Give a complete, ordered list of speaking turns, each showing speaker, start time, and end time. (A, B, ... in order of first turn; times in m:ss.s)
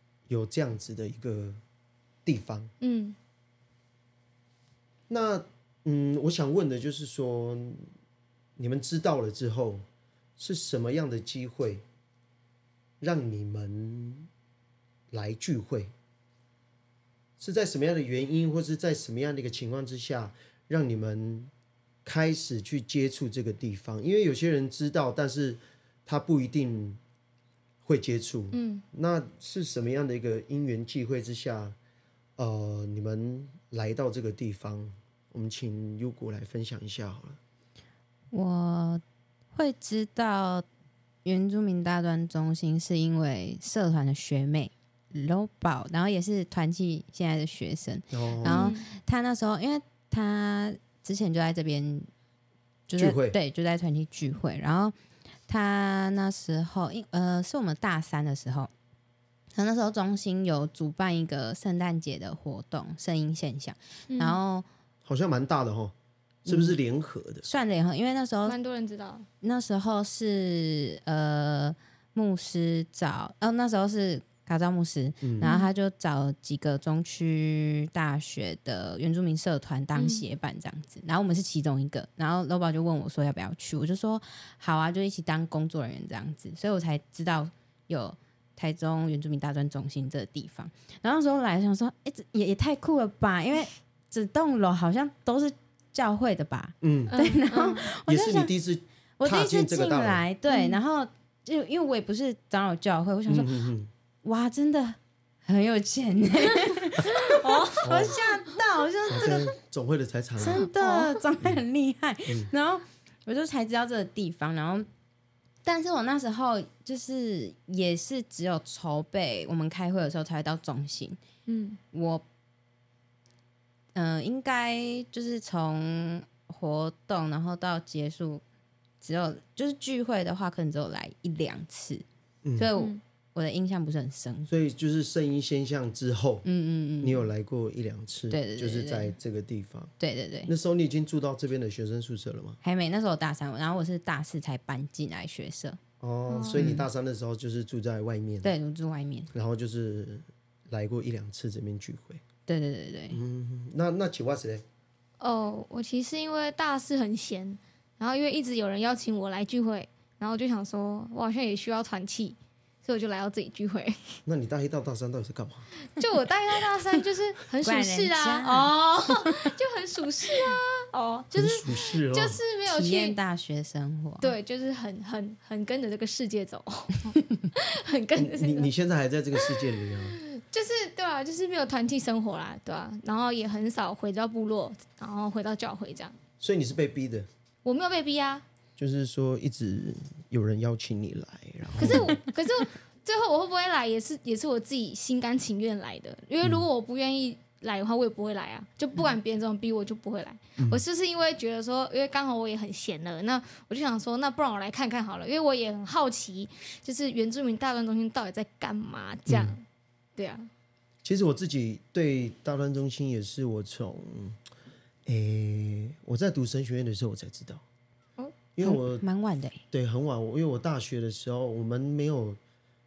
0:00.3-0:01.6 A
0:02.2-0:02.7 A
0:02.8-0:03.2 B
0:05.1-0:07.9 A
0:08.6-0:09.8 A
0:10.4-0:11.8 A
0:13.0-0:14.3 A
0:15.1-0:15.9 A
0:17.4-0:21.5 A
0:22.0-0:27.0 A
0:27.8-0:31.8 A
0:28.5-0:28.8 B
0:32.4-0:37.4 A
0:38.3-0:39.0 C
0:39.6-0:40.6 C
0:41.2-0:52.1 C
0:48.1-0:48.7 A
0:48.4-0:48.9 B
0:52.9-0:55.0 C
0:53.0-0:53.4 A
0:55.5-0:58.7 C
0:59.6-1:04.7 C
1:04.1-1:04.4 B
1:05.0-1:05.9 A
1:06.4-1:07.5 A
1:06.5-1:06.8 C
1:07.4-1:08.6 C
1:08.4-1:09.3 B
1:09.4-1:38.5 C
1:15.2-1:15.5 A
1:15.4-1:15.7 B
1:20.0-1:20.2 B
1:36.8-1:37.2 A
1:37.1-1:37.9 B
1:38.1-1:40.2 A
1:39.2-1:43.6 C
1:40.5-1:40.8 B
1:43.3-1:43.9 A
1:44.2-1:49.5 C
1:47.1-1:47.8 B
1:47.8-1:48.2 A
1:49.1-1:50.7 A
1:50.4-1:54.9 C
1:50.8-1:51.2 B
1:55.6-2:01.2 C
2:01.5-2:01.8 B
2:01.9-2:02.2 C
2:04.0-2:08.4 C
2:09.0-2:12.0 C
2:12.4-2:12.7 A
2:12.6-2:14.5 C
2:14.5-2:16.5 A
2:16.4-2:17.2 C
2:17.0-2:19.9 A
2:18.3-2:19.2 C
2:20.0-2:20.5 C
2:20.5-2:22.6 A
2:22.6-2:25.8 C
2:26.0-2:28.5 A
2:26.3-2:26.7 B
2:26.6-2:26.9 C
2:28.4-2:29.3 C
2:29.3-2:32.2 A
2:32.5-2:33.2 C
2:33.1-2:34.6 A
2:35.2-2:44.2 B
2:44.3-2:45.7 A
2:46.0-2:53.2 B
2:47.6-2:49.4 C
2:51.4-2:52.4 A
2:52.7-2:54.4 C
2:54.2-2:58.7 B
2:58.2-3:00.2 A
2:59.4-3:06.2 B
3:06.4-3:07.3 A
3:07.6-3:08.4 B
3:08.8-3:12.2 A
3:11.8-3:29.6 B
3:20.6-3:20.8 A
3:29.3-3:29.6 A
3:30.2-3:30.5 B
3:31.0-3:34.4 A
3:35.1-3:37.6 A
3:38.6-3:39.0 A
3:38.6-3:39.6 C
3:39.7-3:42.4 A